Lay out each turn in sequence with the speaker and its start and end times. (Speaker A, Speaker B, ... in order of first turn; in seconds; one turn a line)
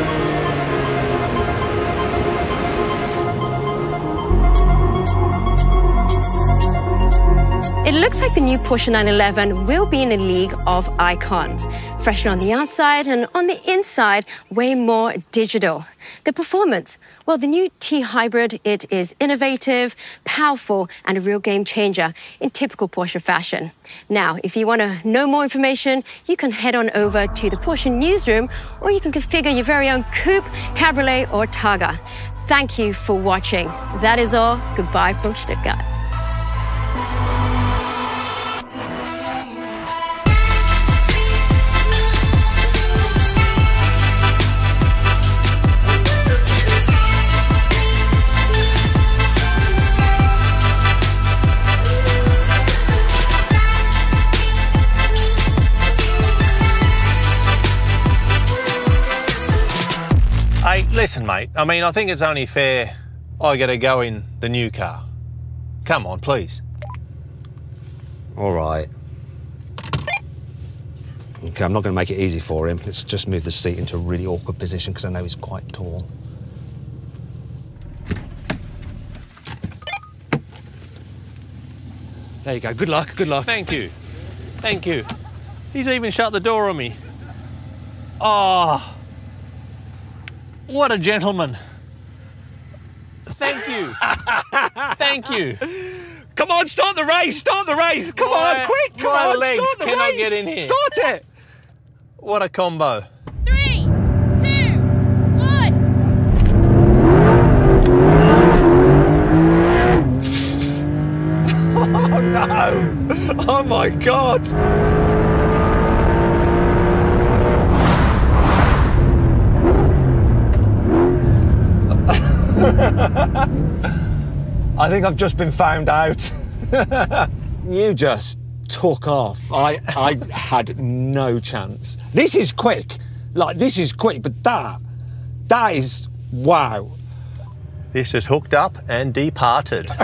Speaker A: 7.8-35.8
Speaker B: 60.6-65.0
Speaker B: 65.8-66.6
Speaker C: 68.3-68.9
Speaker C: 71.4-76.1
Speaker C: 82.4-83.5
Speaker B: 83.5-83.9
Speaker B: 84.6-85.1
Speaker B: 85.7-87.0
Speaker B: 88.2-89.0
Speaker B: 90.7-91.6
Speaker B: 93.3-94.0
Speaker C: 94.0-94.9
Speaker B: 94.9-95.6
Speaker C: 95.7-101.2
Speaker B: 98.1-100.7
Speaker B: 102.2-103.0
Speaker C: 111.6-114.5
Speaker C: 122.3-123.2
Speaker C: 124.8-134.8
Speaker C: 135.5-137.0
Speaker B: 137.9-139.9